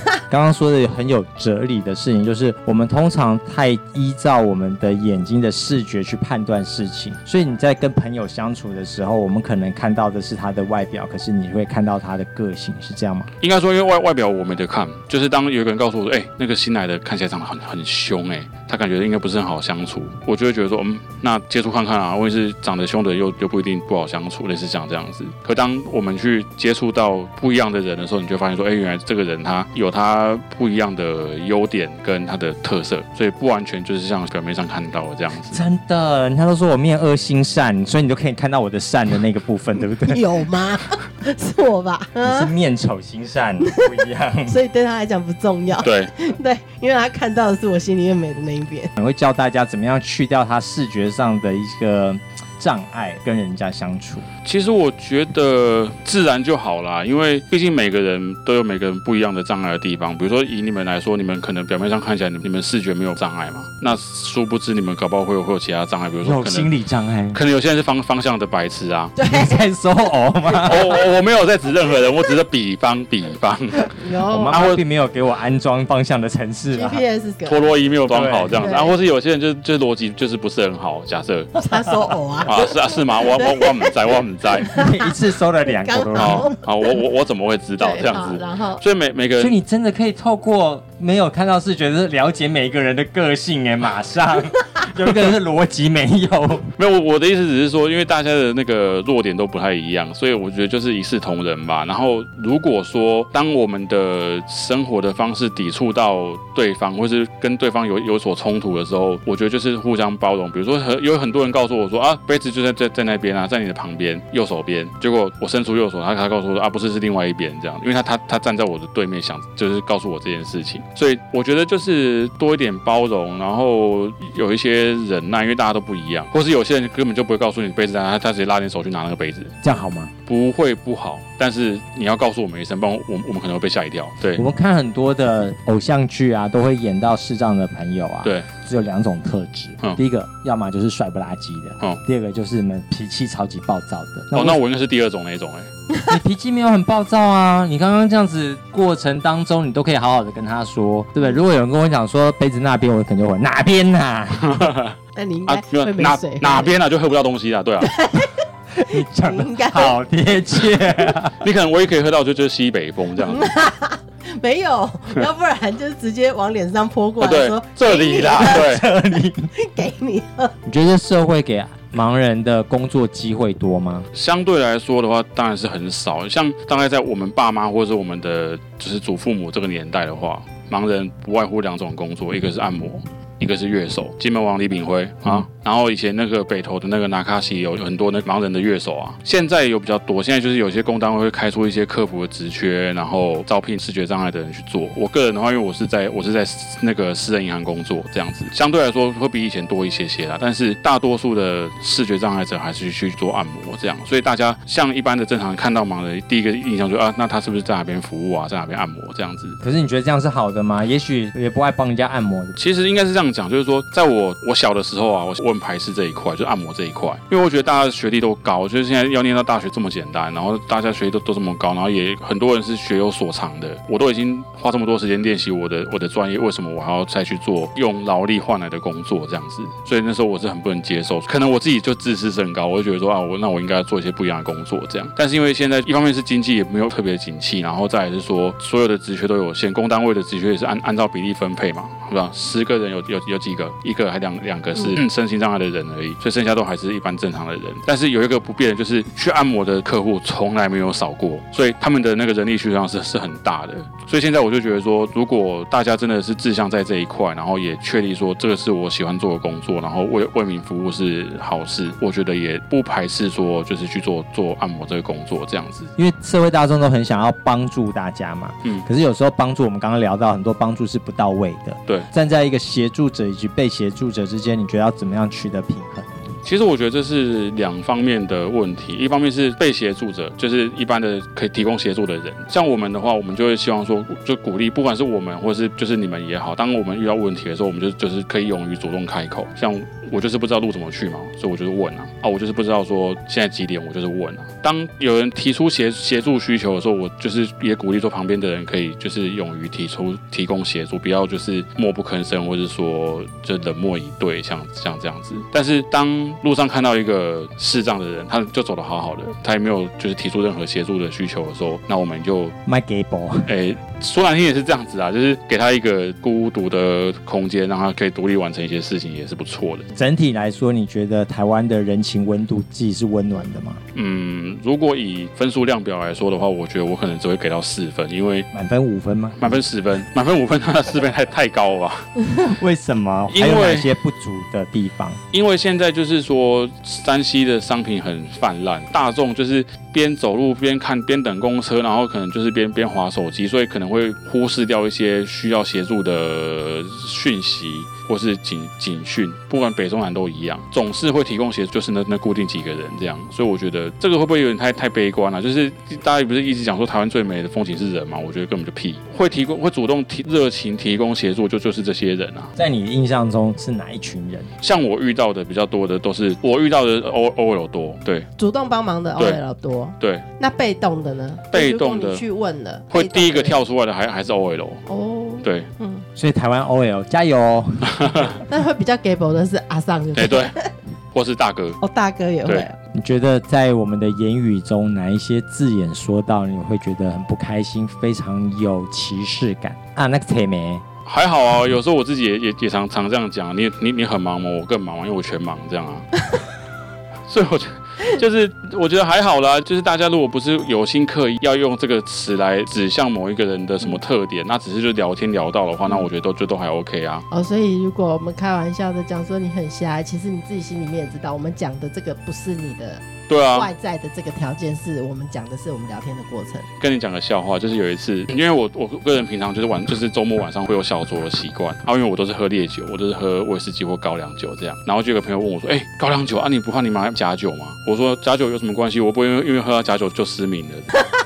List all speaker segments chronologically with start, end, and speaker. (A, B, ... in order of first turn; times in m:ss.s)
0:00.3-0:13.3 A
0:13.4-0:35.6 B
0:35.5-0:40.2 A
0:40.1-0:42.5 C
0:42.2-0:44.6 A
0:43.6-0:48.9 C
0:45.8-0:46.1 B
0:49.0-0:54.3 A
0:54.4-1:06.7 B
1:06.2-1:07.4 A
1:07.3-1:09.2 B
1:09.2-1:09.6 C
1:09.2-1:11.0 A
1:10.6-1:14.0 B
1:14.0-1:14.6 C
1:14.3-1:17.0 A
1:14.5-1:14.8 B
1:16.7-1:17.8 C
1:17.5-1:21.6 B
1:18.1-1:18.7 A
1:18.6-1:18.9 C
1:21.6-1:23.9 C
1:22.4-1:24.8 B
1:24.7-1:25.1 C
1:24.7-1:26.5 A
1:25.7-1:26.7 C
1:26.2-1:29.6 B
1:27.8-1:28.8 C
1:29.4-1:36.7 A
1:36.8-2:09.6 B
2:09.6-2:10.1 A
2:10.3-2:14.4 B
2:14.4-2:24.6 A
2:24.3-2:25.7 B
2:26.1-2:34.7 A
2:34.4-2:35.0 B
2:35.2-2:36.8 C
2:35.5-2:37.9 B
2:37.8-2:38.4 C
2:38.8-2:41.4 A
2:39.0-2:40.0 C
2:41.3-2:43.5 B
2:43.2-2:48.7 C
2:47.2-2:48.8 B
2:48.2-2:49.5 A
2:49.6-2:50.5 C
2:50.7-2:54.1 A
2:54.1-3:29.6 B
3:29.6-3:32.6 A
3:32.6-4:25.9 B
4:26.0-4:36.2 A
4:36.4-5:12.6 B
5:12.7-5:13.5 A
5:13.5-5:19.8 B
5:19.9-5:23.8 A
5:24.0-5:28.5 B
5:28.5-5:29.4 A
5:29.4-5:32.1 B
5:32.4-5:35.2 A
5:33.3-5:33.9 B
5:35.3-6:02.5 B
6:02.6-6:04.5 A
6:04.6-6:08.3 B
6:08.4-6:13.6 C
6:11.5-6:12.2 B
6:12.9-6:14.8 B
6:14.9-6:16.0 C
6:15.4-6:15.7 B
6:16.2-6:18.3 A
6:18.0-6:18.3 B
6:18.5-6:20.7 C
6:20.2-6:20.5 B
6:21.1-6:21.8 B
6:21.8-6:22.8 C
6:22.9-6:30.8 A
6:31.1-6:36.1 B
6:37.3-6:47.2 B
6:47.3-6:56.7 C
6:53.3-6:53.7 B
6:56.8-7:10.9 B